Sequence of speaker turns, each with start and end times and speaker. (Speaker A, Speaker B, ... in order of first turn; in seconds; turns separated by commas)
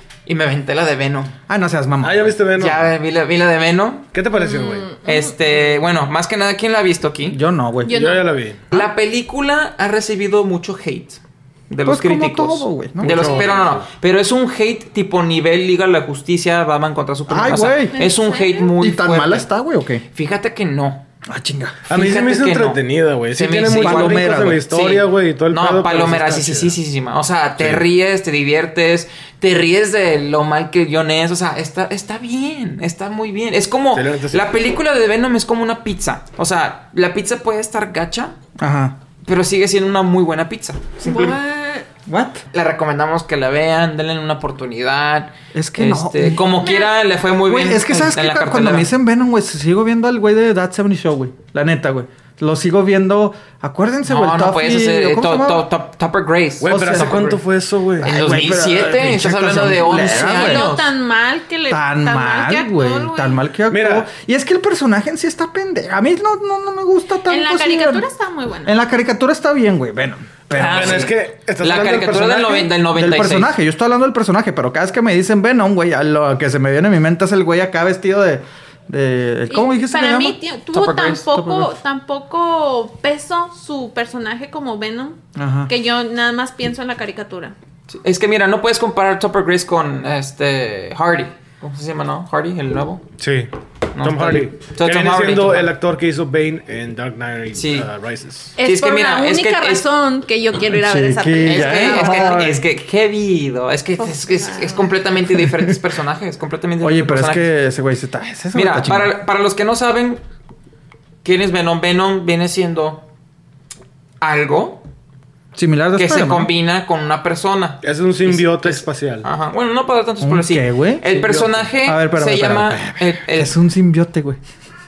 Speaker A: 0.2-1.3, Speaker B: 1.5-2.3, Speaker C: 2.0-2.9, Speaker A: 2.5-4.1, Speaker C: 4.1-4.9, Speaker D: 4.4-5.3, Speaker A: 5.0-7.4, Speaker B: 7.3-8.0, Speaker D: 7.8-8.2, Speaker C: 7.9-8.6, Speaker A: 8.7-19.5, Speaker B: 11.8-13.4, Speaker C: 13.0-13.9, Speaker B: 17.3-17.9, Speaker D: 17.9-18.7, Speaker B: 18.8-20.0, Speaker A: 20.1-21.0, Speaker B: 21.3-21.8, Speaker C: 21.9-26.8, Speaker A: 21.9-22.8, Speaker A: 23.3-38.4, Speaker B: 23.8-24.6, Speaker C: 27.6-27.8, Speaker C: 33.9-34.5, Speaker B: 38.6-39.0, Speaker A: 39.2-41.4, Speaker D: 41.0-41.9, Speaker B: 42.1-42.4, Speaker A: 42.5-48.9, Speaker B: 45.5-46.6, Speaker D: 46.5-46.9, Speaker B: 47.5-55.7, Speaker A: 54.0-57.4, Speaker C: 56.6-58.1, Speaker B: 56.6-57.2, Speaker B: 58.0-60.7, Speaker A: 58.0-60.9, Speaker D: 60.1-63.4, Speaker B: 61.7-68.0, Speaker C: 63.7-64.1, Speaker D: 67.3-68.7, Speaker B: 68.7-71.1, Speaker A: 70.5-73.5, Speaker C: 70.6-72.7, Speaker B: 72.9-80.4, Speaker D: 79.5-87.5, Speaker A: 80.7-81.4, Speaker B: 81.3-81.7, Speaker B: 85.3-85.7, Speaker A: 87.9-93.0, Speaker C: 93.2-98.5, Speaker A: 93.9-95.7, Speaker A: 97.5-97.9, Speaker D: 98.6-102.5, Speaker A: 98.6-99.8, Speaker B: 100.7-102.6, Speaker A: 101.4-107.5, Speaker D: 104.0-104.9, Speaker B: 105.4-105.7, Speaker B: 106.8-109.1, Speaker A: 108.5-110.2, Speaker A: 111.2-113.0, Speaker A: 114.2-114.8, Speaker B: 115.5-116.5, Speaker A: 115.9-123.5, Speaker C: 117.8-119.3, Speaker B: 120.2-124.4